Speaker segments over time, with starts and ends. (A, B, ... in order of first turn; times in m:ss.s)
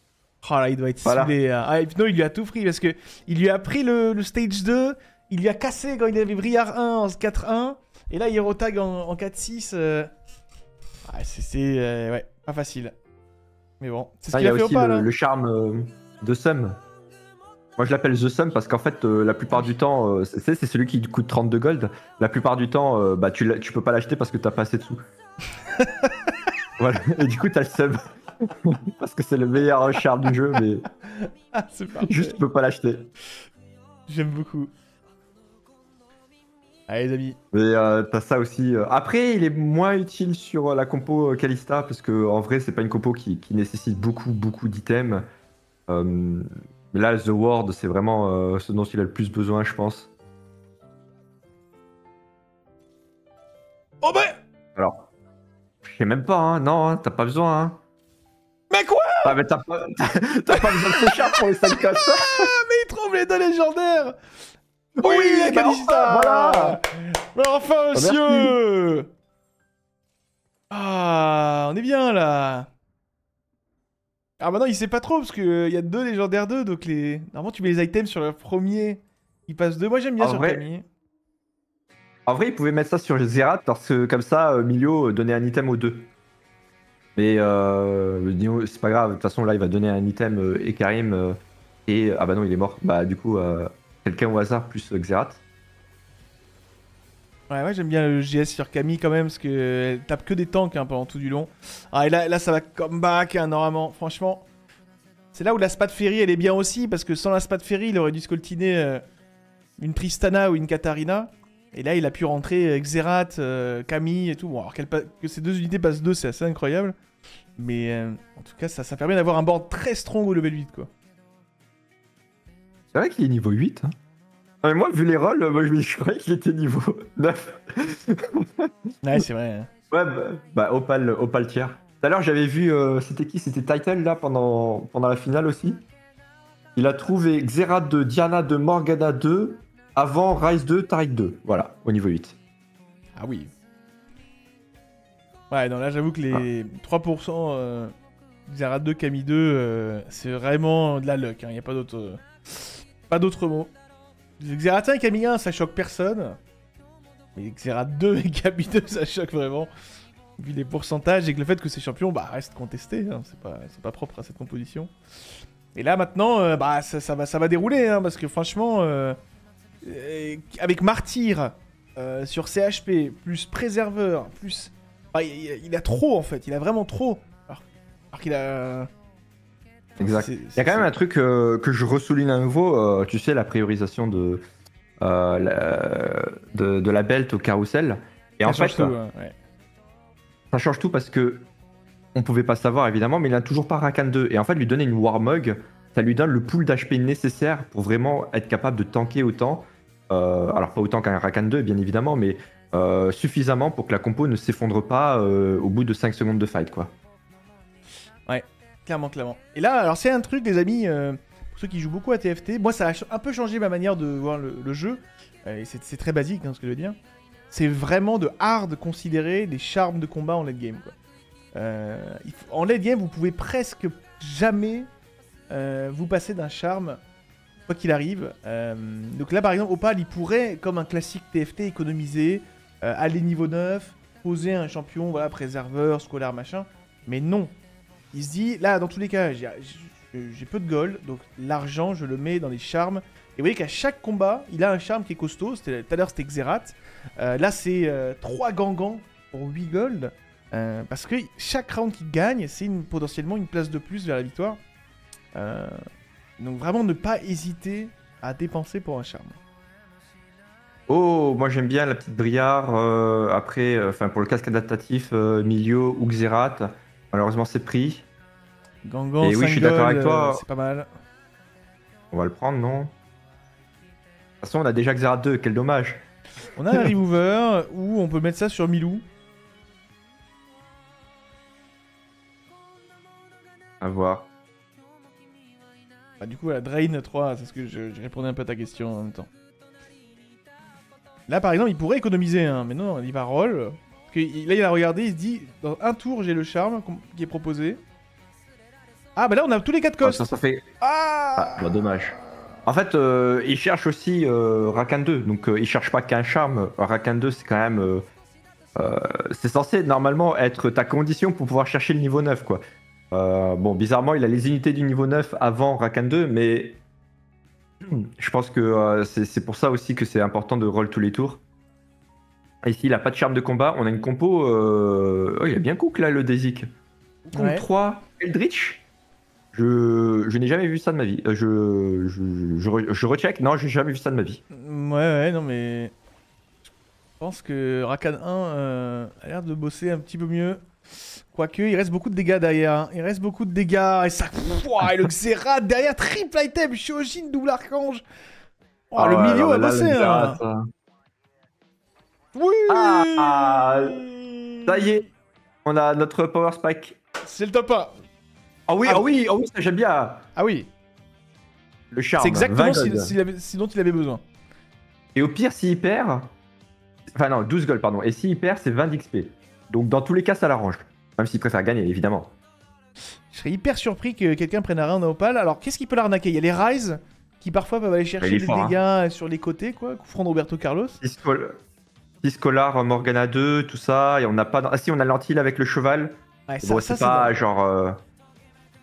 0:00.4-0:10.1 A
0:01.0-0:01.3 B
0:11.1-0:12.9 A
0:13.8-0:15.1 A
0:14.3-0:16.8 B
0:17.8-0:25.0 B
0:25.7-0:26.3 A
0:26.8-0:30.9 B
0:31.1-0:32.4 A
0:32.0-0:33.1 B
0:34.1-0:34.7 A
0:36.9-0:37.4 A
0:37.5-0:45.2 B
0:45.9-0:50.1 B
0:54.0-0:54.4 A
0:54.8-0:55.1 B
0:55.8-0:57.8 B
0:58.7-0:59.4 A
0:59.2-1:02.5 B
1:00.5-1:04.2 A
1:05.0-1:06.8 B
1:05.0-1:09.1 A
1:07.9-1:08.6 B
1:10.7-1:12.7 A
1:14.4-1:20.8 A
1:20.2-1:20.6 B
1:22.2-1:26.1 B
1:27.2-1:35.4 B
1:37.5-1:44.5 A
1:45.3-1:49.0 A
1:49.8-1:56.9 A
1:57.6-2:00.9 A
2:02.9-2:03.9 B
2:04.6-2:08.7 B
2:09.0-2:09.7 A
2:09.9-2:15.8 B
2:16.8-2:22.4 B
2:23.2-2:23.5 A
2:25.5-2:27.9 A
2:28.4-2:33.7 A
2:34.4-2:36.4 A
2:37.4-2:39.7 A
2:40.4-2:44.9 A
2:45.7-2:49.2 A
2:49.8-2:58.9 A
3:00.0-3:04.4 B
3:00.0-3:00.9 A
3:05.0-3:08.9 B
3:08.5-3:09.3 A
3:10.5-3:11.5 B
3:12.1-3:26.9 B
3:28.2-3:37.0 A
3:37.5-3:40.9 A
3:41.5-3:44.9 A
3:45.5-3:47.0 A
3:47.7-3:57.5 A
3:58.1-4:14.6 A
4:15.3-4:15.8 A
4:16.4-4:19.4 A
4:20.9-4:28.0 B
4:28.8-4:30.9 A
4:29.2-4:30.4 B
4:32.1-4:32.9 B
4:34.4-4:36.0 B
4:36.5-4:39.0 A
4:43.8-4:44.3 B
4:46.2-4:49.3 A
4:51.3-4:57.8 A
4:59.2-5:00.3 A
5:00.0-5:00.7 B
5:00.8-5:01.8 A
5:01.4-5:02.1 B
5:02.6-5:08.0 B
5:08.7-5:16.8 B
5:17.8-5:21.4 B
5:22.6-5:26.7 B
5:27.2-5:27.6 A
5:27.3-5:28.8 B
5:29.5-5:34.4 B
5:34.5-5:35.9 A
5:37.2-5:48.0 A
5:48.9-5:50.4 A
5:49.0-5:50.6 B
5:52.3-5:55.1 A
5:52.7-5:54.0 B
5:54.6-5:55.0 B
5:55.6-5:57.0 B
5:57.2-5:57.9 A
5:58.7-6:00.3 B
6:00.4-6:00.7 A
6:01.9-6:03.1 B
6:02.2-6:04.2 A
6:05.1-6:06.3 B
6:07.1-6:12.3 B
6:13.3-6:21.0 A
6:18.2-6:18.8 B
6:21.0-6:21.6 B
6:22.2-6:28.0 B
6:26.5-6:27.4 A